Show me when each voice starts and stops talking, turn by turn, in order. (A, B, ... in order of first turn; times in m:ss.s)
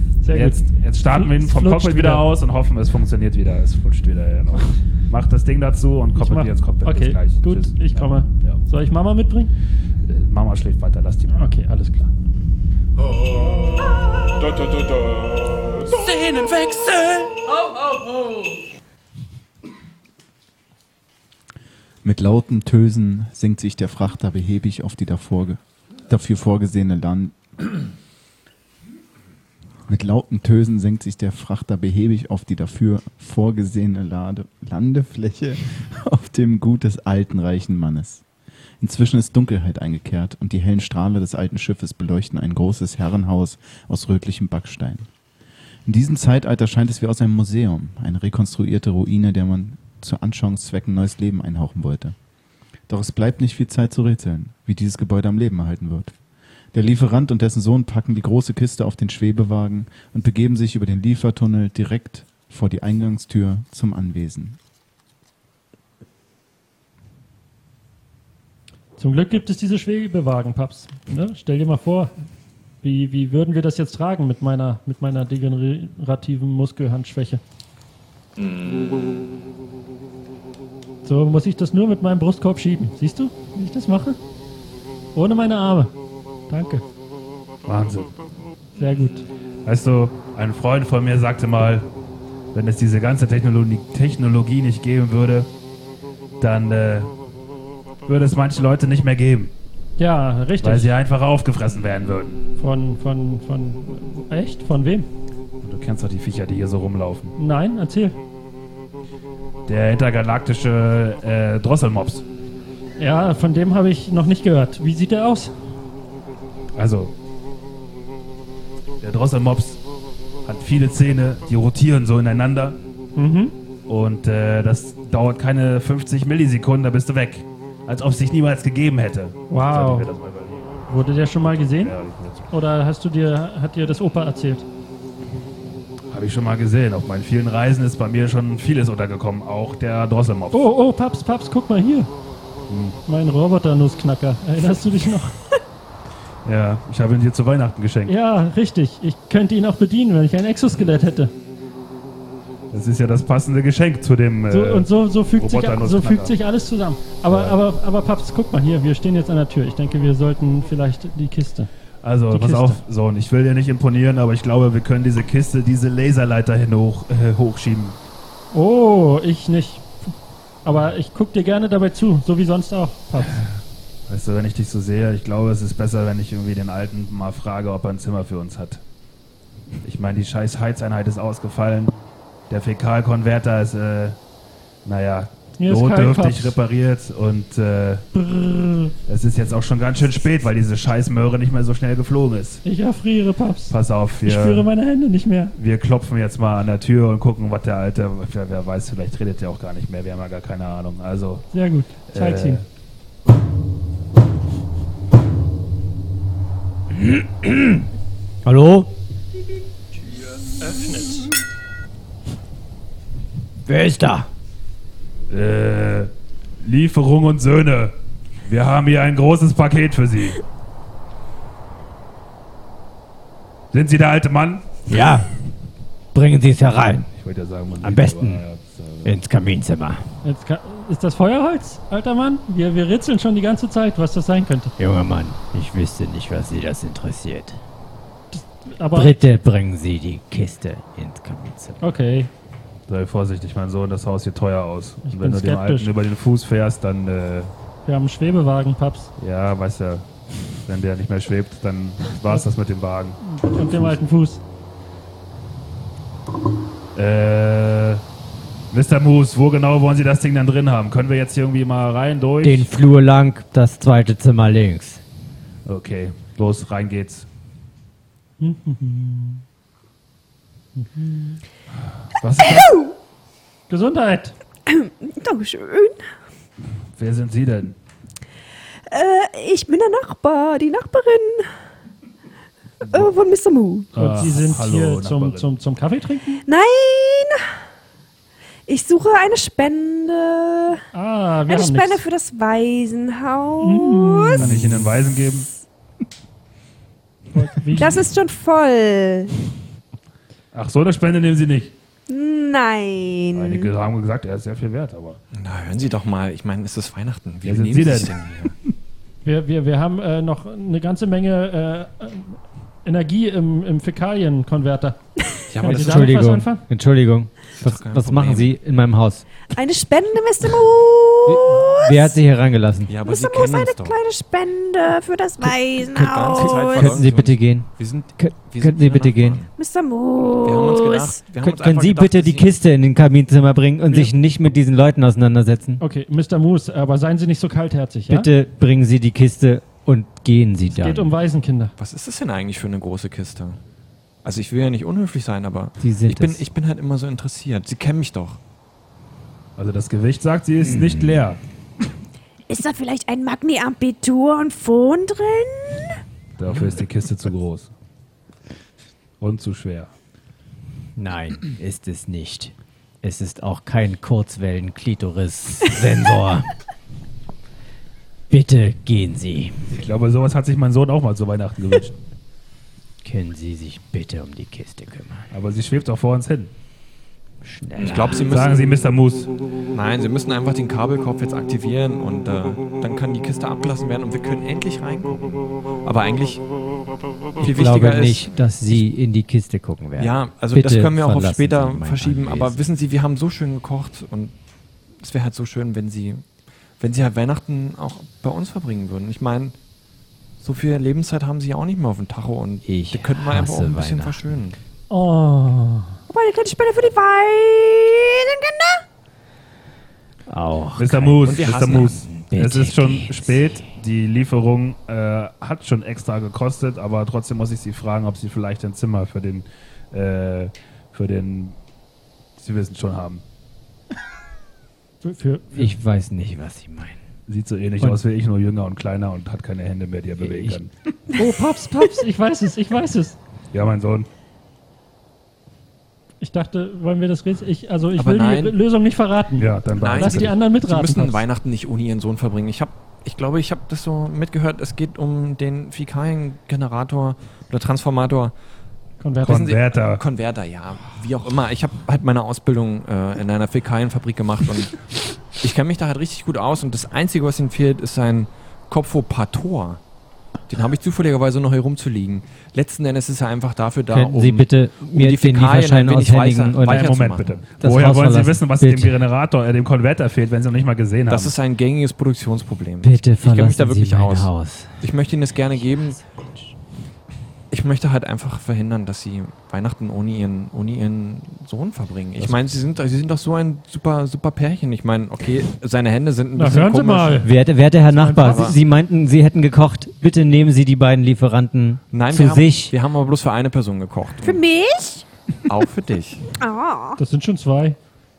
0:00.2-0:02.2 A
0:00.3-0:08.6 B
0:06.2-0:09.5 A
0:10.1-0:11.4 B
0:11.3-0:12.1 A
0:15.9-0:17.3 B
0:22.0-0:27.8 C
0:29.9-0:38.2 C
0:38.8-0:45.1 C
0:45.9-0:52.2 C
0:52.9-0:56.1 C
0:56.7-1:04.6 C
1:09.0-1:12.1 A
1:12.8-1:17.4 A
1:21.0-1:24.2 A
1:25.2-1:25.9 A
1:26.5-1:26.8 A
1:27.7-1:28.1 B
1:28.8-1:29.3 A
1:29.6-1:31.9 B
1:32.5-1:35.5 B
1:36.4-1:37.1 B
1:38.1-1:39.5 B
1:40.0-1:40.9 A
1:40.6-1:42.4 B
1:42.6-1:45.1 A
1:45.6-1:47.3 B
1:47.4-1:48.2 A
1:49.7-1:52.2 B
1:53.0-1:55.5 A
1:56.8-1:57.1 B
1:59.0-1:59.8 B
2:00.4-2:02.8 B
2:03.2-2:03.6 A
2:03.9-2:12.5 B
2:09.5-2:10.1 A
2:10.9-2:12.0 A
2:12.5-2:14.6 A
2:16.1-2:20.7 B
2:20.5-2:22.1 A
2:22.7-2:23.0 B
2:23.1-2:25.4 A
2:26.4-2:28.1 B
2:28.1-2:31.3 A
2:32.7-2:36.4 B
2:34.5-2:41.7 A
2:37.3-2:37.6 B
2:42.0-2:48.0 B
2:42.3-2:42.8 A
2:48.5-2:49.9 A
2:50.6-2:53.4 A
2:54.1-2:58.8 B
2:59.8-3:02.0 B
3:02.5-3:04.2 B
3:04.8-3:08.1 B
3:05.6-3:06.6 A
3:08.1-3:08.9 A
3:09.1-3:12.6 B
3:12.6-3:15.5 A
3:13.7-3:14.7 B
3:15.6-3:21.4 B
3:21.5-3:22.6 A
3:22.1-3:22.6 B
3:26.9-3:27.9 D
3:28.4-3:28.9 D
3:30.7-3:31.1 A
3:33.7-3:34.3 D
3:35.3-3:36.1 B
3:36.6-3:37.9 B
3:38.5-3:40.4 B
3:43.7-3:44.7 B
3:44.9-3:45.3 D
3:46.1-3:47.1 D
3:47.2-3:49.2 B
3:47.8-3:48.4 D
3:49.0-3:50.0 D
3:50.2-3:54.7 A
3:54.8-3:57.6 D
3:58.3-3:59.2 A
3:58.9-4:01.8 D
4:01.8-4:02.3 A
4:02.9-4:07.5 B
4:05.1-4:05.9 A
4:07.9-4:09.1 A
4:09.2-4:10.1 B
4:10.7-4:14.0 B
4:13.2-4:14.4 A
4:17.0-4:18.0 B
4:18.7-4:22.7 B
4:22.4-4:25.0 D
4:25.7-4:27.3 B
4:28.4-4:29.4 A
4:30.8-4:31.4 A
4:32.2-4:32.8 B
4:32.4-4:32.9 E
4:33.7-4:34.4 A
4:34.7-4:36.0 E
4:37.0-4:37.8 B
4:38.9-4:41.5 E
4:42.9-4:43.1 B
4:42.9-4:43.9 E
4:43.9-4:45.5 B
4:44.0-4:46.4 A
4:46.5-4:47.4 E
4:48.7-4:50.8 E
4:50.9-4:52.0 A
4:51.5-4:54.5 E
4:53.6-4:54.5 A
4:54.4-4:55.5 B
4:57.3-4:58.0 A
4:57.8-4:59.3 E
5:00.5-5:01.7 B
5:02.1-5:03.7 E
5:03.3-5:05.2 B
5:05.3-5:08.6 F
5:07.4-5:08.1 B
5:09.2-5:15.0 A
5:15.5-5:16.2 F
5:15.6-5:16.6 A
5:15.7-5:19.2 D
5:17.6-5:18.6 F
5:19.5-5:22.2 E
5:21.3-5:22.9 D
5:22.9-5:24.0 F
5:23.0-5:27.0 E
5:25.9-5:29.5 F
5:26.2-5:29.4 D
5:29.5-5:31.2 E
5:30.4-5:32.6 F
5:31.4-5:35.8 D
5:35.8-5:38.3 A
5:38.1-5:41.1 D
5:40.7-5:41.8 A
5:41.8-5:43.6 F
5:44.2-5:48.4 F
5:45.8-5:46.4 D
5:49.6-5:51.4 B
5:50.6-5:51.2 D
5:52.5-5:55.8 E
5:56.4-5:57.7 B
5:59.2-5:59.9 B
6:01.0-6:06.5 D
6:08.3-6:09.7 D
6:09.7-6:12.0 B
6:13.0-6:15.3 D
6:15.3-6:16.5 B
6:17.4-6:18.3 D
6:17.8-6:18.7 F
6:18.2-6:19.3 B
6:19.7-6:26.4 F
6:27.4-6:28.8 F
6:27.4-6:32.6 D
6:30.0-6:34.4 F
6:35.0-6:36.2 F
6:36.8-6:39.6 F
6:40.4-6:44.6 F
6:42.6-6:44.2 D
6:44.9-6:46.0 A
6:46.1-6:48.8 E
6:50.3-6:53.6 D
6:50.8-7:01.6 B
6:51.2-6:52.0 F
7:02.4-7:03.2 B
7:05.0-7:05.7 A
7:05.5-7:07.0 D
7:07.3-7:10.7 B
7:10.2-7:10.6 D
7:11.1-7:13.2 A
7:13.5-7:14.1 B
7:16.2-7:21.2 A
7:18.0-7:18.6 F
7:19.4-7:20.4 B
7:19.8-7:28.3 F
7:29.0-7:29.5 A
7:29.2-7:30.0 B
7:29.3-7:39.8 F
7:40.5-7:47.4 F
7:43.9-7:47.0 D
7:46.6-7:51.4 B
7:47.6-7:49.0 D
7:51.1-7:56.0 F
7:52.8-7:54.8 D
7:55.5-7:56.2 D
7:57.5-8:08.6 F
8:06.4-8:07.3 A
8:07.2-8:12.7 D
8:08.0-8:08.5 A
8:11.9-8:14.4 F
8:14.2-8:15.0 E
8:15.5-8:16.3 F
8:16.4-8:17.0 E
8:17.0-8:17.8 A